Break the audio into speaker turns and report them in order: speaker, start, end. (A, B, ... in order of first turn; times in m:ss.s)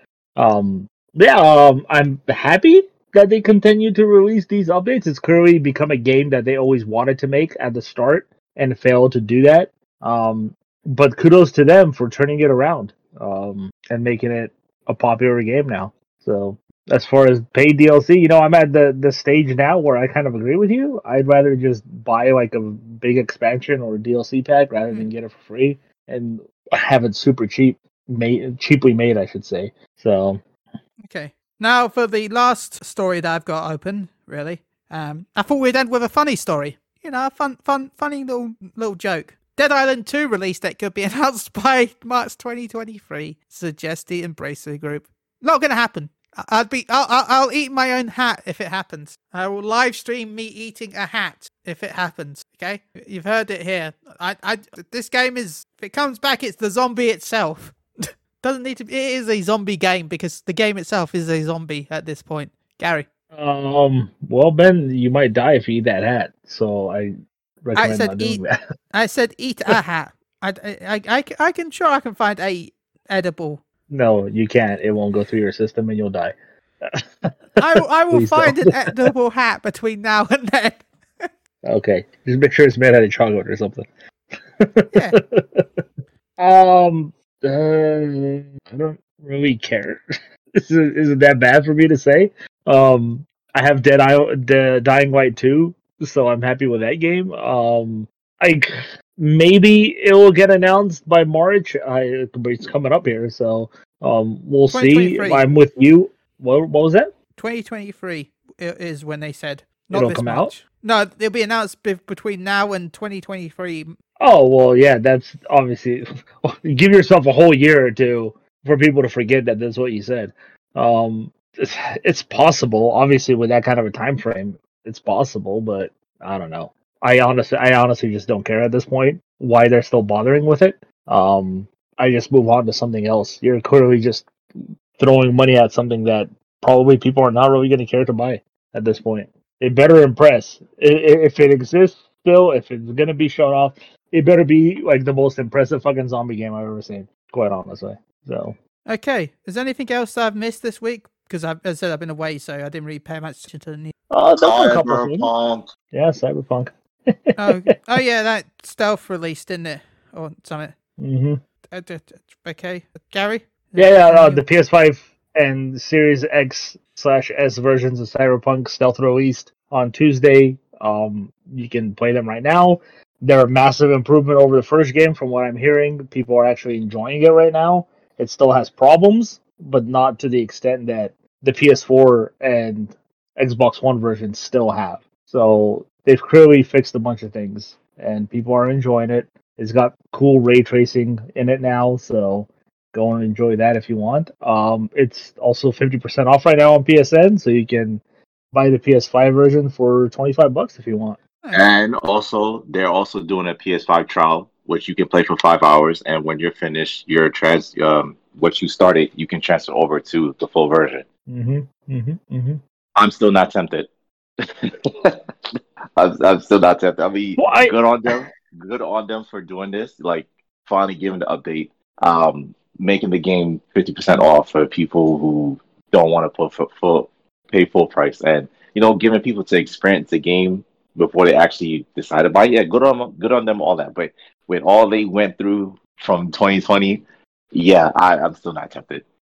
0:00.4-0:30.4 A
0:31.0-1:03.0 B
1:03.3-1:08.6 A
1:07.7-1:08.4 B
1:08.9-1:13.6 B
1:13.9-1:17.3 A
1:17.6-1:21.3 B
1:18.1-1:19.1 A
1:21.6-1:25.8 A
1:24.9-1:25.2 B
1:26.4-1:30.0 A
1:30.6-1:47.1 A
1:44.7-1:45.4 B
1:47.4-1:54.0 B
1:49.9-1:50.5 A
1:54.2-2:14.3 A
2:15.0-2:28.6 A
2:28.8-2:33.9 B
2:34.1-2:35.3 A
2:34.4-2:35.7 C
2:35.9-2:37.7 A
2:37.4-2:40.7 B
2:41.0-2:41.4 A
2:41.7-2:44.4 B
2:43.8-3:18.0 A
3:18.5-3:21.2 A
3:21.5-3:31.0 C
3:31.3-3:32.6 A
3:33.0-3:33.9 C
3:34.4-3:35.2 C
3:36.0-3:59.0 C
3:37.4-3:38.2 A